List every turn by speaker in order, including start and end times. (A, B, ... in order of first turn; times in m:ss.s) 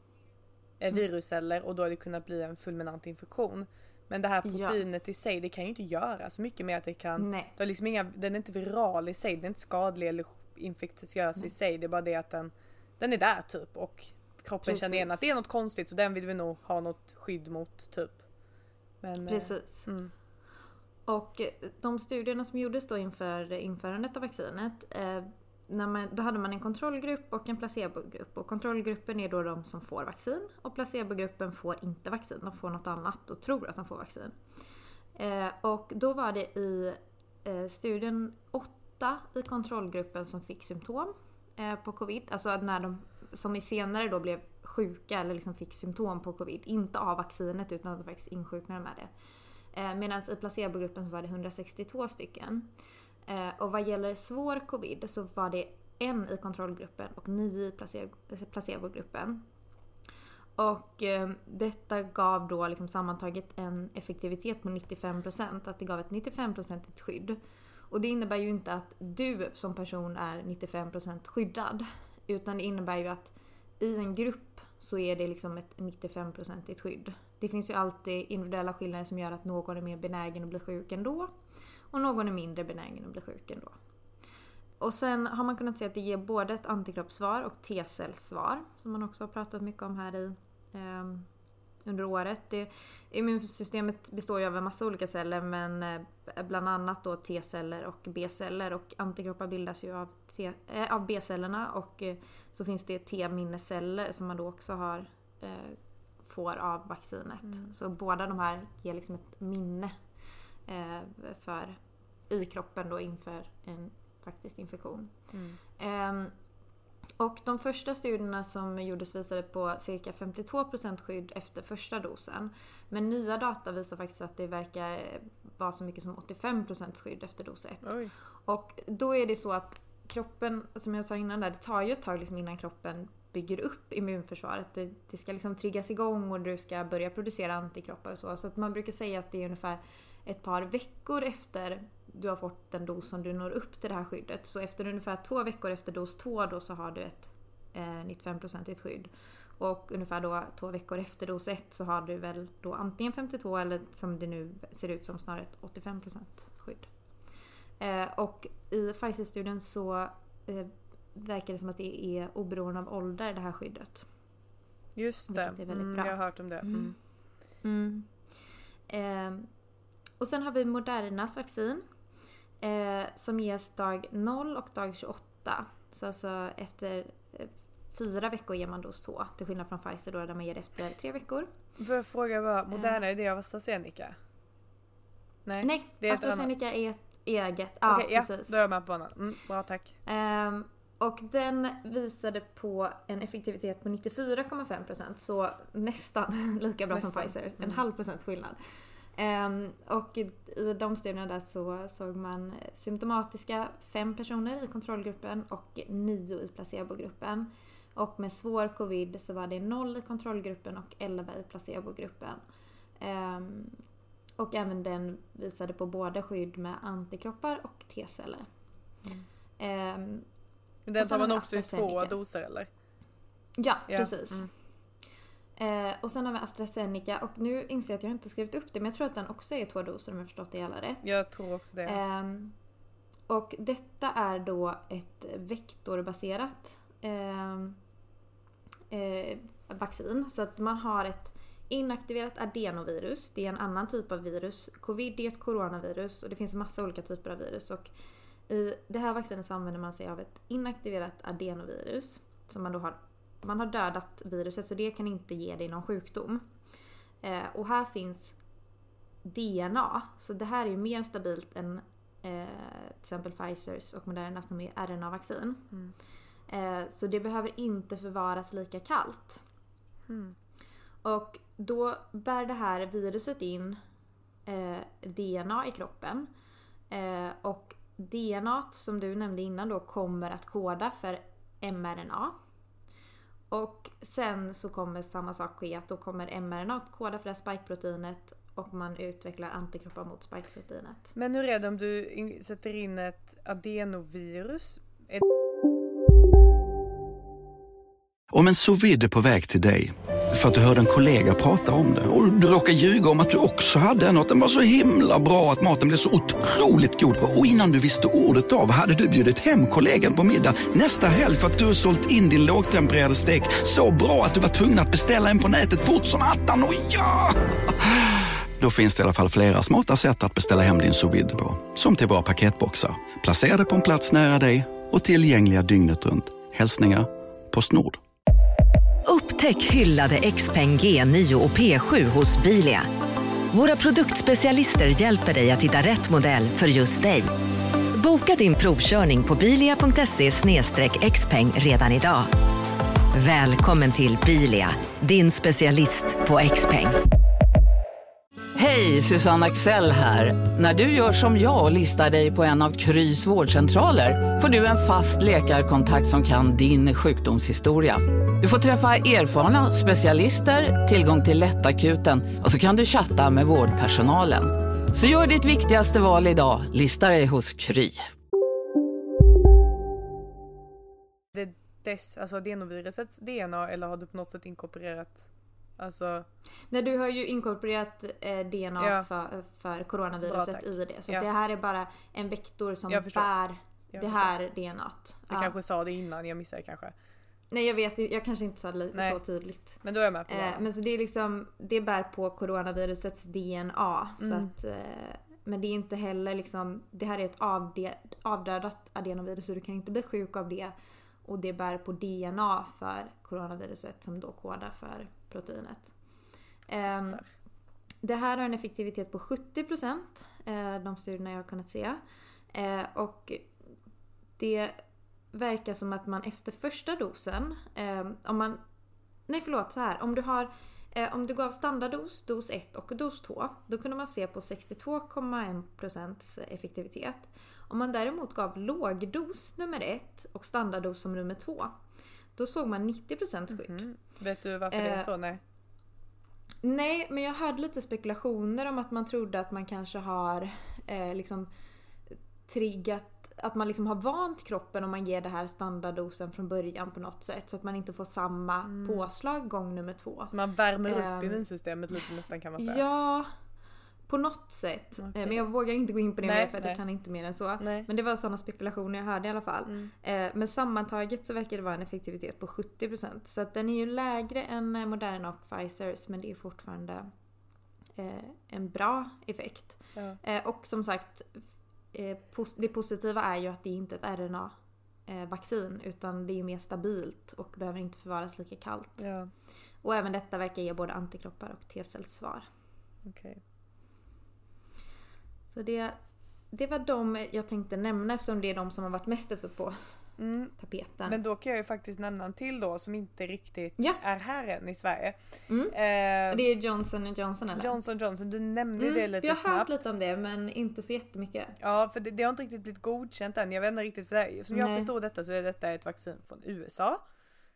0:00.8-0:18.2 A
0:04.4-0:04.8 B
0:07.2-0:07.5 B
0:14.6-0:15.2 B
0:19.0-0:20.1 A
0:19.2-0:19.9 B
0:21.1-0:34.4 B
0:35.2-0:49.1 B
0:49.7-0:52.7 B
0:53.3-0:59.4 B
1:00.6-1:07.4 B
1:07.9-1:21.3 B
1:21.9-1:23.8 B
1:24.8-1:31.3 B
1:31.8-1:50.0 B
1:50.7-1:51.8 B
1:52.3-1:55.1 B
1:55.3-1:55.6 A
1:55.8-1:56.3 B
1:57.2-2:36.9 B
2:07.8-2:08.1 A
2:37.8-2:44.1 B
2:45.0-2:47.0 A
2:45.3-2:47.0 B
2:47.6-2:48.3 B
2:48.9-2:49.5 B
2:50.2-2:51.8 B
2:52.6-3:01.5 B
3:01.8-3:04.2 A
3:05.4-3:06.5 A
3:05.6-3:08.6 B
3:07.9-3:10.0 A
3:10.0-3:18.6 B
3:16.9-3:17.8 A
3:19.2-3:32.4 B
3:33.0-3:33.8 B
3:34.4-3:38.5 B
3:39.6-3:40.2 B
3:40.8-3:42.7 A
3:41.0-3:42.2 B
3:43.6-3:44.5 B
3:43.9-3:44.5 A
3:45.6-3:51.0 B
3:51.0-3:52.0 A
3:51.8-3:52.5 B
3:53.3-3:57.8 B
3:58.9-4:07.9 B
4:08.5-4:16.5 B
4:17.2-4:18.3 B
4:19.2-4:25.7 B
4:26.5-4:29.4 B
4:30.1-4:30.4 A
4:31.0-4:33.8 B
4:34.4-4:36.3 B
4:36.9-4:42.4 B
4:43.5-4:51.1 B
4:51.1-4:55.2 A
4:58.3-5:28.0 C
5:29.0-5:32.9 D
5:33.5-5:37.3 D
5:37.9-5:42.3 D
5:43.1-5:47.0 D
5:48.5-6:08.0 E
6:11.3-6:15.2 A
6:15.8-6:16.3 A
6:16.7-6:25.6 B
6:18.8-6:19.1 A
6:20.2-6:21.2 A
6:22.9-6:23.3 A
6:23.9-6:24.3 A
6:25.3-6:26.9 A
6:27.5-6:40.7 B
6:28.9-6:29.2 A
6:29.8-6:30.6 A
6:34.2-6:34.5 A
6:41.2-6:45.9 B
6:46.7-6:47.2 B
6:46.8-6:47.3 A
6:48.0-6:52.0 B
6:52.5-6:53.5 B
6:54.4-6:54.8 B
6:55.3-6:58.6 B
6:59.3-7:11.8 B
7:12.4-7:13.8 B
7:13.5-7:15.4 A
7:14.7-7:15.1 B
7:16.6-7:21.5 B
7:22.1-7:30.3 B
7:28.7-7:29.1 A
7:30.3-7:32.8 A
7:30.8-7:31.4 B
7:32.6-7:33.3 B
7:34.1-7:47.1 B
7:35.0-7:35.4 A
7:36.2-7:36.8 A
7:37.6-7:37.9 A
7:48.0-7:54.6 B
7:55.1-7:59.0 B
7:59.0-7:59.3 A
7:59.8-8:02.4 B
8:03.0-8:03.4 A
8:05.5-8:06.0 B
8:06.5-8:09.8 B
8:10.2-8:10.5 A
8:10.6-8:11.2 B
8:11.0-8:15.2 A
8:15.5-8:15.8 B
8:15.7-8:16.4 A
8:16.3-8:17.8 B
8:17.5-8:19.7 A
8:18.8-8:21.6 B
8:21.6-8:27.0 A
8:24.5-8:24.9 B